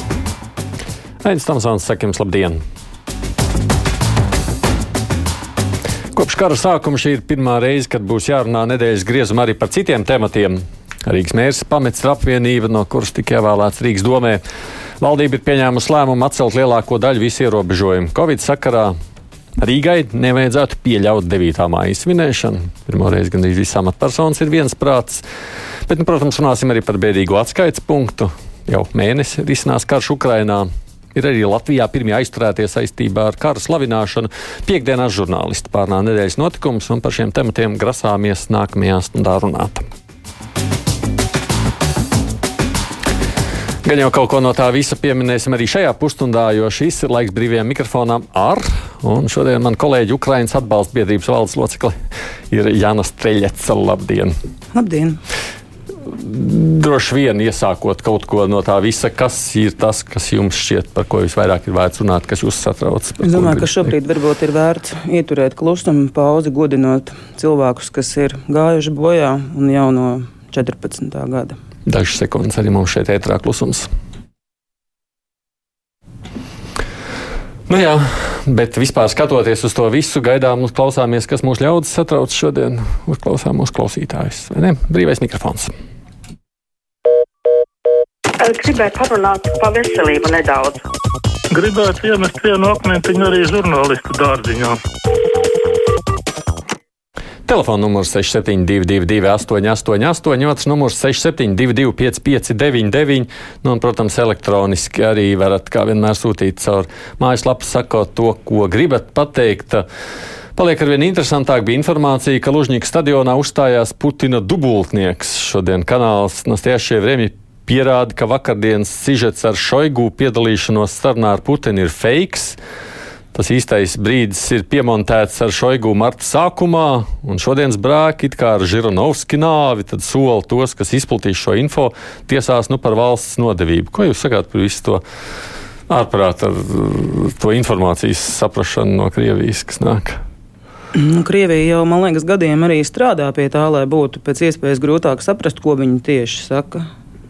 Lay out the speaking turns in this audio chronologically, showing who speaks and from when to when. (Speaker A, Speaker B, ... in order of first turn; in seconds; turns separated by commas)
Speaker A: 1.2-2.6, Speaker A: 6.1-14.4, Speaker A: 15.0-18.9, Speaker A: 19.6-25.2, Speaker A: 25.9-39.9, Speaker A: 43.8-52.0, Speaker A: 52.5-54.4, Speaker B: 54.7-55.2, Speaker A: 56.0-63.9, Speaker B: 63.2-71.6, Speaker A: 71.9-73.9, Speaker A: 77.7-85.7, Speaker C: 88.4-90.8, Speaker D: 91.5-94.8, Speaker A: 97.5-109.9, Speaker A: 110.6-122.6, Speaker A: 123.3-135.0, Speaker A: 135.9-140.2, Speaker B: 140.9-146.9